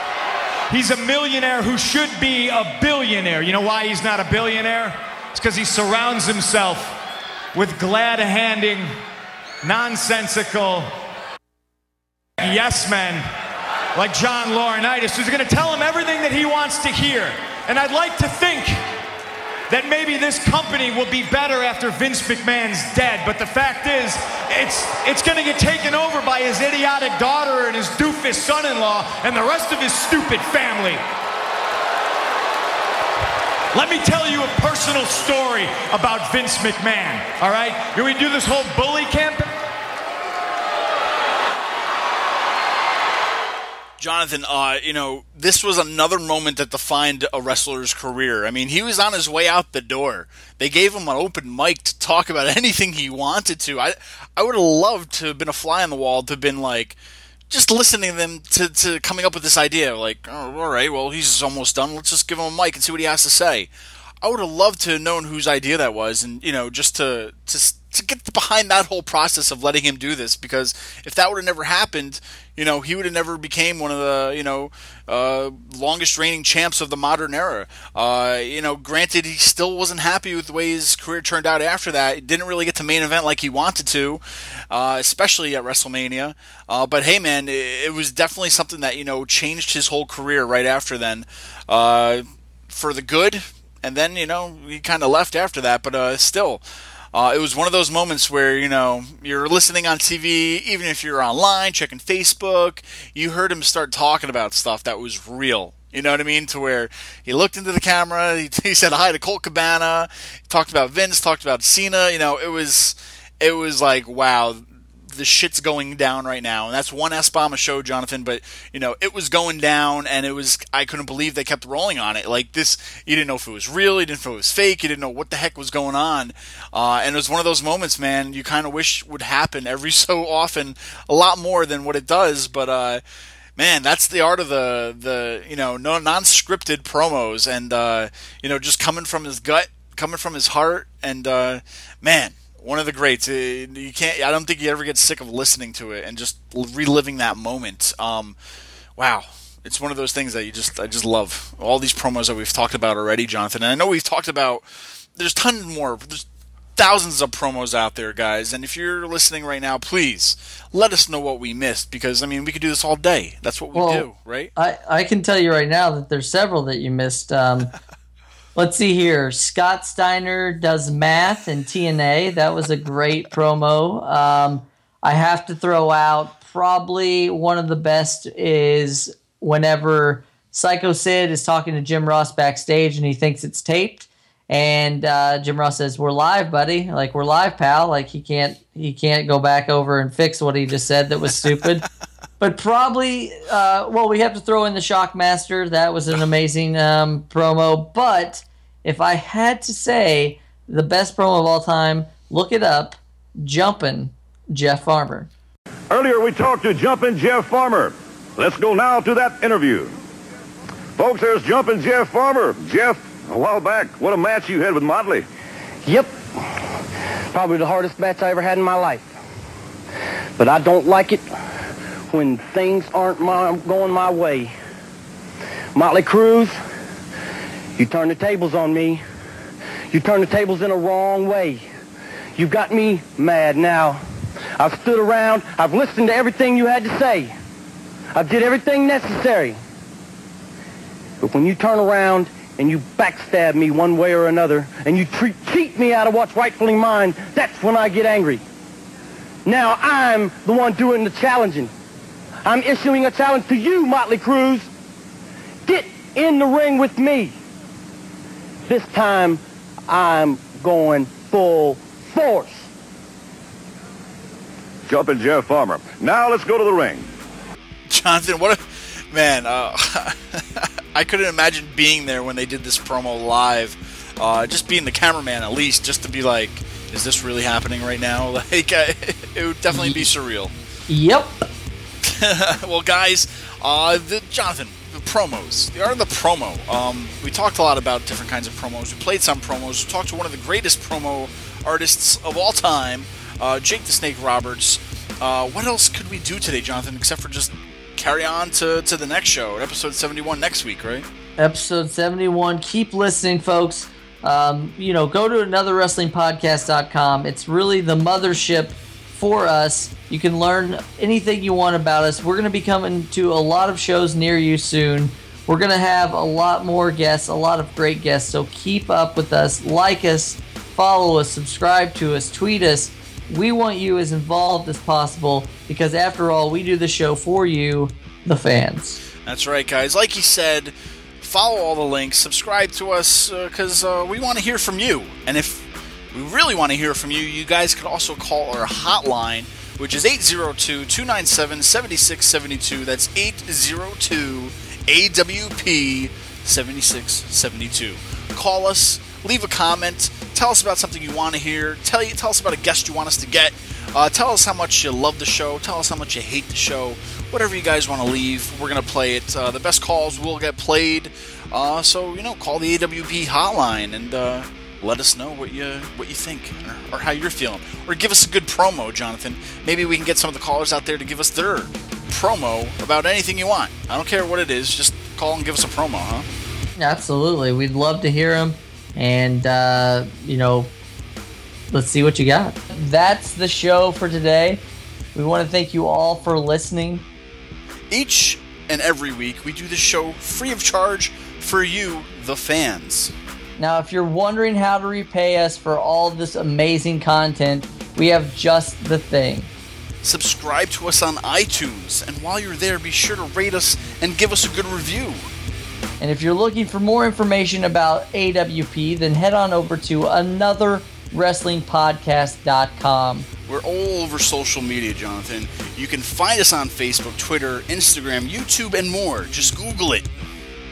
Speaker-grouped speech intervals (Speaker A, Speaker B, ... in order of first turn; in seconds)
Speaker A: 0.7-7.0, 7.5-8.9, 9.6-10.9, 12.4-13.2, 13.9-18.8, 19.7-31.0, 33.7-39.5
Speaker B: 44.0-57.0, 57.5-63.7, 64.2-96.6, 97.1-133.0, 133.6-148.4, 149.0-154.6, 155.2-156.2, 156.8-164.5, 267.9-280.5, 282.0-301.1, 329.2-376.2, 387.9-393.1, 400.0-405.3, 413.5-420.1
Speaker C: 163.7-167.7, 168.5-191.8, 192.4-205.3, 279.7-280.1, 280.9-281.4, 301.4-329.0, 376.8-380.7, 381.7-384.6, 385.1-387.1, 393.6-399.5, 406.0-413.3
Speaker D: 205.9-209.9, 211.0-215.2, 264.9-267.1
Speaker E: 215.8-216.7, 217.3-219.1, 220.4-221.2, 222.1-224.5, 225.7-226.5, 227.8-229.0, 229.9-231.6, 232.3-234.0, 234.6-237.3, 238.1-239.6, 241.2-248.4, 249.4-251.7, 252.4-254.7, 255.7-257.3, 258.6-262.7